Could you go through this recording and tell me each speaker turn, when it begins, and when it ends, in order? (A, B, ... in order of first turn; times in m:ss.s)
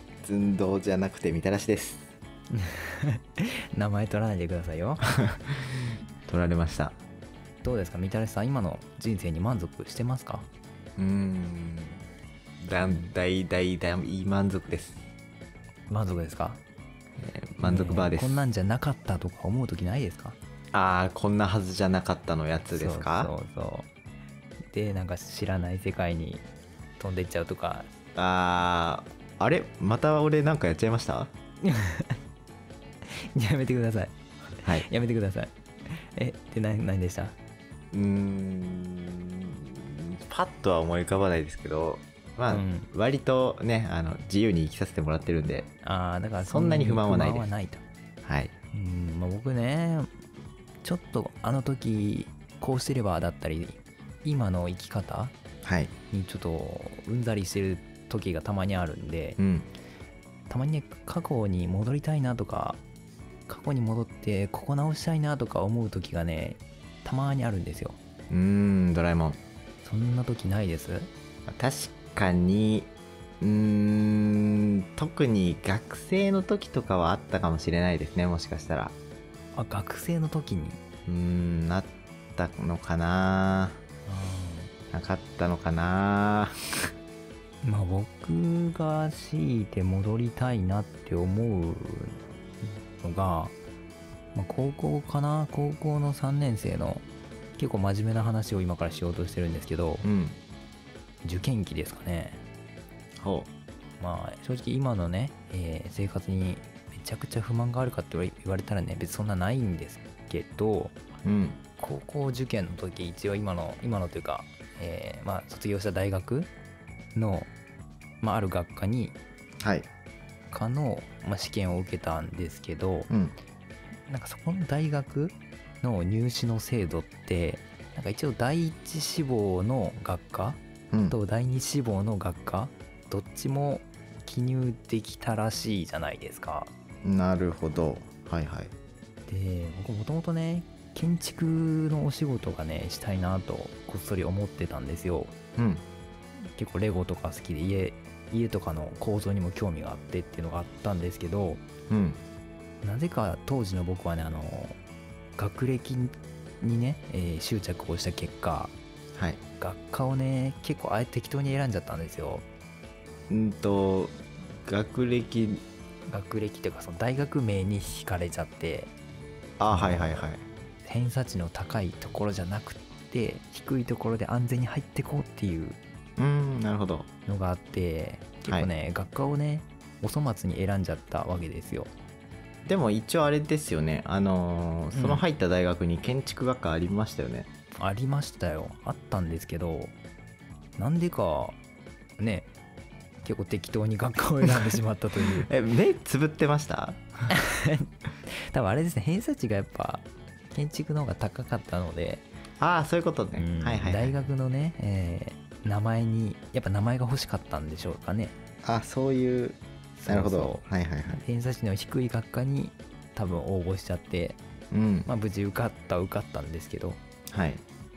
0:00.2-0:02.1 A
0:02.5-0:05.0 B
0:05.2-0:05.7 A
0:06.3-0:07.0 A
0:07.6-0:10.5 B
0:11.0-0:12.0 A
0:12.6-0:15.0 A
0:15.9-0:16.6 B
0:17.2-0:18.4 A
0:17.6-0:20.4 B
0:20.7-0:23.3 A
0:22.7-0:23.9 B
0:24.7-0:26.4 B
0:27.0-0:27.9 B
0:28.1-0:31.3 A
0:31.6-0:32.2 B
0:33.1-0:37.4 B
0:37.9-0:45.7 A
0:42.5-0:42.9 B
0:45.8-0:47.8 B
0:46.4-0:47.5 A
0:48.2-0:48.5 A
0:48.7-0:50.1 B
0:50.8-0:55.3 B
0:55.6-0:55.9 A
0:56.1-0:59.4 B
0:59.4-0:59.7 A
1:00.5-1:02.8 B
1:03.5-1:08.0 B
1:08.3-1:09.4 A
1:09.8-1:11.1 B
1:11.5-1:19.0 A
1:19.5-1:20.8 B
1:21.0-1:23.8 A
1:24.1-1:24.7 B
1:24.9-1:26.5 A
1:27.6-1:32.2 B
1:33.0-1:33.5 B
1:34.3-1:37.0 B
1:37.6-1:40.1 B
1:40.0-1:40.4 A
1:41.2-1:42.4 B
1:43.2-1:43.5 A
1:44.0-1:50.9 B
1:51.2-1:51.6 A
1:51.8-1:56.5 B
1:57.1-1:57.5 B
1:58.2-1:59.2 B
1:59.6-1:59.9 A
2:00.5-2:03.1 B
2:03.1-2:03.3 A
2:04.1-2:16.7 B
2:17.0-2:18.7 A
2:19.3-2:25.3 B
2:25.6-2:25.8 A
2:26.5-2:31.6 B
2:31.9-2:32.2 A
2:32.8-2:34.8 B
2:35.4-2:38.7 B
2:39.2-2:39.4 A
2:39.6-2:42.4 B
2:43.3-2:45.6 A
2:46.1-2:48.9 B
2:49.6-2:50.4 A
2:49.7-2:50.3 B
2:50.8-2:55.8 B
2:56.2-2:57.1 A
2:57.2-3:01.9 B
3:02.6-3:07.5 A
3:04.9-3:05.2 B
3:07.8-3:09.9 B
3:10.8-3:11.6 B
3:12.2-3:12.5 B
3:13.2-3:15.5 B
3:15.4-3:17.3 A
3:17.3-3:22.2 B
3:22.6-3:24.2 A
3:23.3-3:28.4 B
3:28.6-3:31.2 A
3:30.0-3:34.4 B
3:34.7-3:35.1 A
3:35.0-3:37.0 B
3:37.3-3:37.6 A